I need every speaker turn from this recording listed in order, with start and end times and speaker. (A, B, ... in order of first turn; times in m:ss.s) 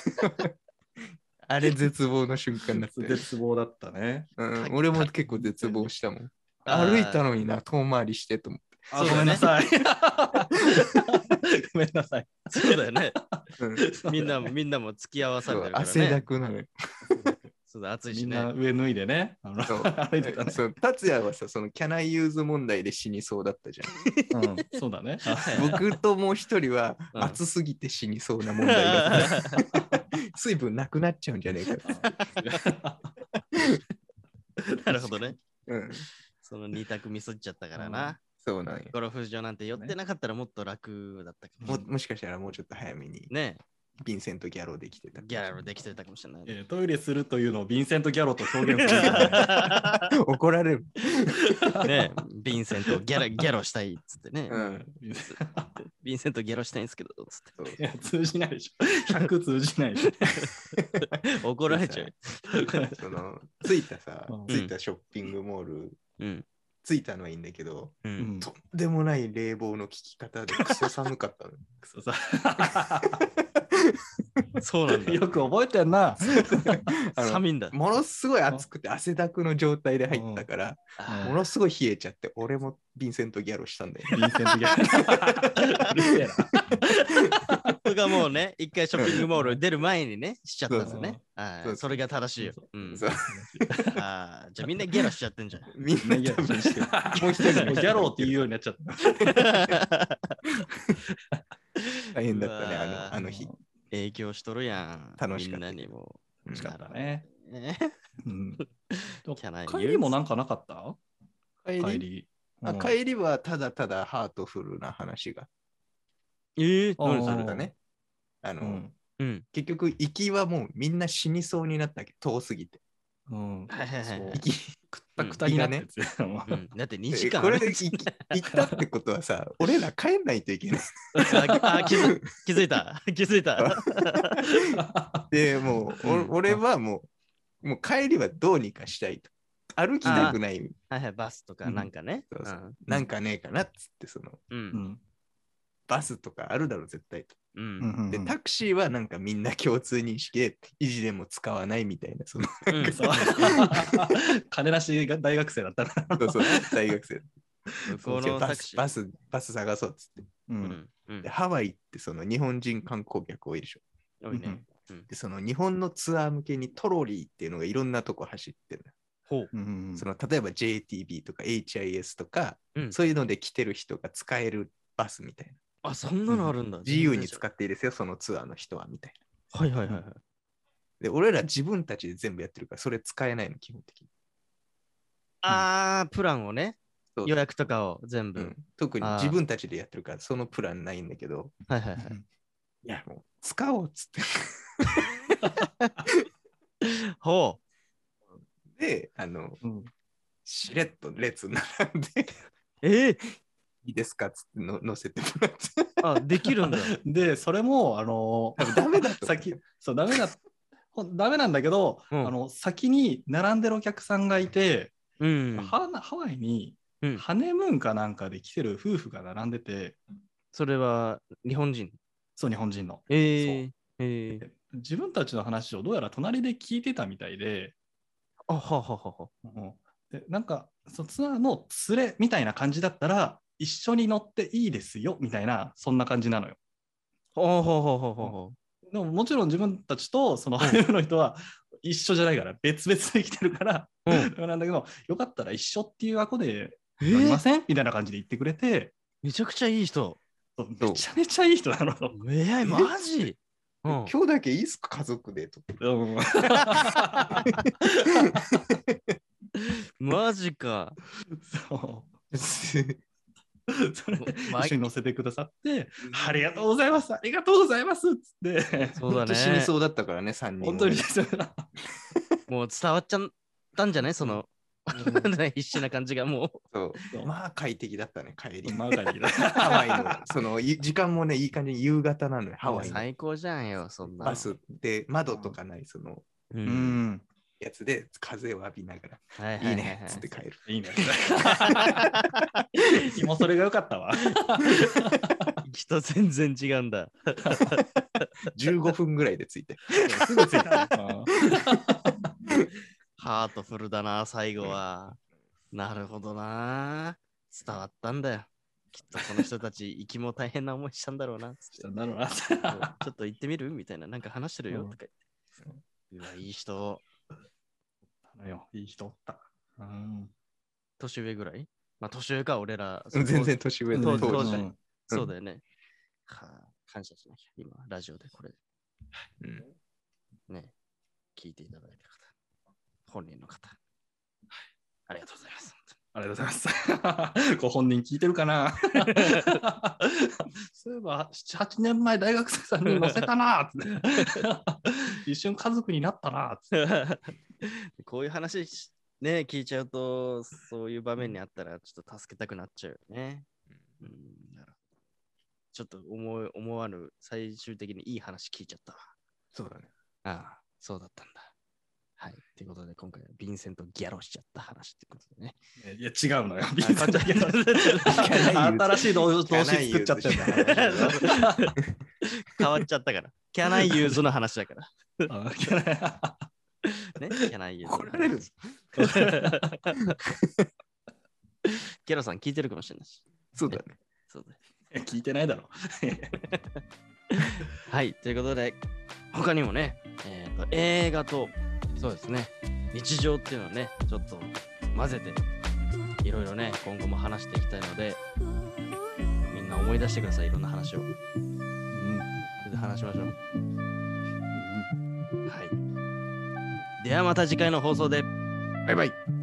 0:00.2-0:00.5 A
0:01.4-0:03.2 A
0:02.8-0:04.3 B
0:04.4-0:09.5 A
0:04.6-0:05.1 C
0:05.3-0:05.9 B
0:06.6-0:07.2 C
0:08.9-0:14.5 B
0:09.0-0:09.5 C
0:10.6-0:11.2 A
0:12.5-0:13.2 C
0:13.6-0:13.8 A
0:14.0-0:16.2 C
0:15.4-0:17.3 A
0:17.6-0:18.5 C
0:18.1-0:20.6 B
0:19.6-0:23.9 A
0:23.9-0:24.5 C
0:24.3-0:25.8 B
0:25.3-0:25.8 C
0:25.5-0:32.1 A
0:27.1-0:27.4 C
0:28.6-0:29.6 C
0:29.7-0:30.1 B
0:31.8-0:33.1 B
0:32.1-0:32.5 C
0:33.5-0:33.8 A
0:34.7-0:35.3 B
0:34.8-0:35.4 C
0:35.7-0:36.0 A
0:36.4-0:38.2 C
0:37.8-0:38.2 B
0:38.4-0:38.9 A
0:38.9-0:41.7 C
0:41.6-0:41.9 B
0:41.7-0:43.3 A
0:43.3-0:43.6 C
0:44.0-0:45.6 A
0:45.2-0:46.5 C
0:46.5-0:49.8 B
0:48.7-0:50.1 C
0:50.1-0:51.8 A
0:51.4-0:52.1 B
0:51.8-0:54.6 C
0:54.5-0:54.8 A
0:54.6-0:55.8 B
0:55.3-0:57.5 C
0:57.7-1:00.5 B
1:01.2-1:02.6 C
1:01.7-1:02.1 A
1:02.5-1:03.0 B
1:02.9-1:06.0 A
1:06.2-1:06.5 C
1:06.8-1:11.8 A
1:08.0-1:08.3 C
1:08.2-1:08.5 B
1:10.6-1:10.9 B
1:11.9-1:13.2 B
1:12.6-1:14.0 A
1:14.6-1:15.2 C
1:14.9-1:16.8 B
1:16.5-1:26.0 A
1:17.1-1:17.7 C
1:20.1-1:20.5 B
1:21.0-1:21.3 C
1:21.1-1:21.4 B
1:24.1-1:27.8 B
1:26.7-1:27.5 A
1:27.8-1:33.0 C
1:29.3-1:29.6 B
1:30.7-1:31.0 A
1:30.8-1:31.2 B
1:31.6-1:32.0 A
1:32.4-1:34.0 B
1:32.9-1:33.9 A
1:33.9-1:35.7 C
1:35.7-1:38.5 A
1:36.0-1:39.8 B
1:37.4-1:38.0 C
1:39.2-1:40.4 C
1:41.8-1:43.1 C
1:42.1-1:43.5 A
1:43.1-1:43.6 B
1:43.9-1:48.0 C
1:45.2-1:45.8 A
1:46.4-1:46.7 A
1:46.5-1:47.2 B
1:48.2-1:48.6 B
1:48.9-1:50.2 C
1:49.2-1:51.0 B
1:51.6-1:52.0 A
1:51.8-1:53.0 B
1:52.6-1:55.5 A
1:56.6-1:57.5 C
1:57.0-1:57.7 B
1:57.2-1:57.7 A
1:58.4-1:58.8 A
1:58.6-1:58.9 B
1:59.2-1:59.4 C
1:59.5-2:02.8 A
2:03.3-2:06.6 B
2:03.7-2:04.4 C
2:04.4-2:04.8 A
2:05.3-2:05.8 A
2:06.5-2:08.3 C
2:07.1-2:12.2 A
2:08.5-2:08.8 B
2:11.1-2:11.9 B
2:11.2-2:14.4 C
2:13.6-2:17.1 A
2:14.6-2:15.3 B
2:16.0-2:16.3 C
2:17.6-2:20.7 A
2:20.0-2:20.4 C
2:20.1-2:20.4 B
2:20.9-2:22.8 C
2:21.6-2:21.9 B
2:22.3-2:24.4 A
2:24.5-2:24.8 C
2:24.7-2:25.0 B
2:25.9-2:27.4 A
2:27.5-2:27.9 C
2:27.8-2:28.3 B
2:28.1-2:34.2 A
2:32.7-2:33.6 C
2:32.8-2:36.8 B
2:36.2-2:37.3 A
2:37.8-2:38.8 C
2:37.9-2:38.2 B
2:38.1-2:40.3 A
2:40.5-2:40.8 B
2:40.6-2:41.3 C
2:41.2-2:43.8 A
2:44.2-2:45.1 C
2:44.3-2:44.6 B
2:45.1-2:48.9 A
2:49.5-2:50.0 B
2:50.0-2:55.6 A
2:55.8-2:57.4 C
2:56.8-2:59.2 A
2:59.5-3:00.2 C
3:01.0-3:04.1 A
3:05.4-3:09.4 C
3:08.4-3:11.5 A
3:11.7-3:12.1 C
3:12.8-3:15.0 A
3:15.3-3:15.9 C
3:16.8-3:17.6 C
3:18.7-3:19.6 A
3:19.6-3:19.9 B
3:20.4-3:22.4 A
3:22.8-3:23.2 C
3:23.8-3:26.0 A
3:26.0-3:27.0 C
3:26.6-3:30.4 B
3:28.6-3:29.6 A
3:30.9-3:35.0 B
3:35.2-3:35.7 C
3:35.5-3:40.0 B
3:40.5-3:42.0 C
3:42.4-3:43.6 B
3:43.1-3:44.4 C
3:44.4-3:47.7 B
3:48.5-3:49.3 C
3:49.4-3:56.6 B
3:57.4-3:58.5 C
3:58.9-4:08.9 B
4:07.0-4:07.4 C
4:09.2-4:10.2 C
4:10.6-4:12.2 B
4:12.1-4:14.1 C
4:12.6-4:12.9 A
4:13.9-4:15.7 A
4:15.8-4:18.6 B
4:16.5-4:17.6 C
4:18.2-4:19.1 A
4:19.6-4:21.0 C
4:21.4-4:22.1 B
4:22.3-4:23.0 A
4:23.7-4:29.2 B
4:24.1-4:24.9 C
4:26.1-4:26.5 A
4:28.9-4:29.7 C
4:29.2-4:31.1 A
4:30.6-4:31.7 B
4:32.5-4:36.6 C
4:34.9-4:35.3 B
4:36.7-4:39.0 A
4:38.6-4:40.2 B
4:39.5-4:43.0 A
4:42.6-4:42.9 B
4:42.7-4:44.5 C
4:44.1-4:44.4 B
4:44.2-4:46.2 A
4:45.3-4:45.6 B
4:46.5-4:47.0 C
4:46.6-4:47.2 B
4:47.6-4:50.6 A
4:49.4-4:50.3 C
4:50.6-4:52.2 B
4:51.4-4:52.6 C
4:52.9-4:55.5 B
4:54.3-4:54.8 C
4:54.7-4:55.3 A
4:55.6-4:58.3 C
4:58.5-5:00.6 A
5:00.0-5:02.3 B
5:00.6-5:00.9 C
5:01.5-5:01.8 A
5:03.2-5:05.2 C
5:05.7-5:11.9 C
5:09.1-5:09.4 B
5:11.7-5:13.0 B
5:12.6-5:15.1 C
5:14.7-5:15.0 B
5:16.1-5:17.0 C
5:18.3-5:20.3 B
5:21.0-5:25.6 C
5:23.1-5:25.3 A
5:23.9-5:24.7 B
5:26.3-5:28.5 C
5:29.4-5:29.6 A
5:30.5-5:30.7 C
5:31.3-5:32.2 C
5:33.1-5:33.8 C
5:35.1-5:36.0 C
5:36.1-5:46.8 B
5:39.0-5:39.6 C
5:42.8-5:43.3 C
5:44.2-5:44.5 C
5:46.7-5:53.4 C
5:54.0-5:54.8 C
5:55.7-5:59.1 C
5:59.5-5:59.9 A
6:00.2-6:01.5 C
6:02.2-6:05.6 C
6:05.8-6:11.7 B
6:06.8-6:08.4 C
6:08.1-6:11.9 A
6:10.5-6:15.3 C
6:13.8-6:14.2 B
6:15.3-6:16.4 B
6:17.0-6:18.3 C
6:17.9-6:18.8 A
6:19.0-6:20.2 C
6:19.0-6:19.8 B
6:20.2-6:20.7 A
6:21.6-6:24.6 C
6:23.5-6:24.0 A
6:24.9-6:26.5 B
6:26.5-6:26.8 C
6:27.4-6:28.8 C
6:29.3-6:35.4 C
6:36.2-6:38.2 C
6:39.5-6:41.1 C
6:41.9-6:42.3 B
6:42.6-6:43.3 C
6:44.5-6:44.9 B
6:45.5-6:45.8 C
6:47.0-6:48.3 C
6:48.9-6:49.1 A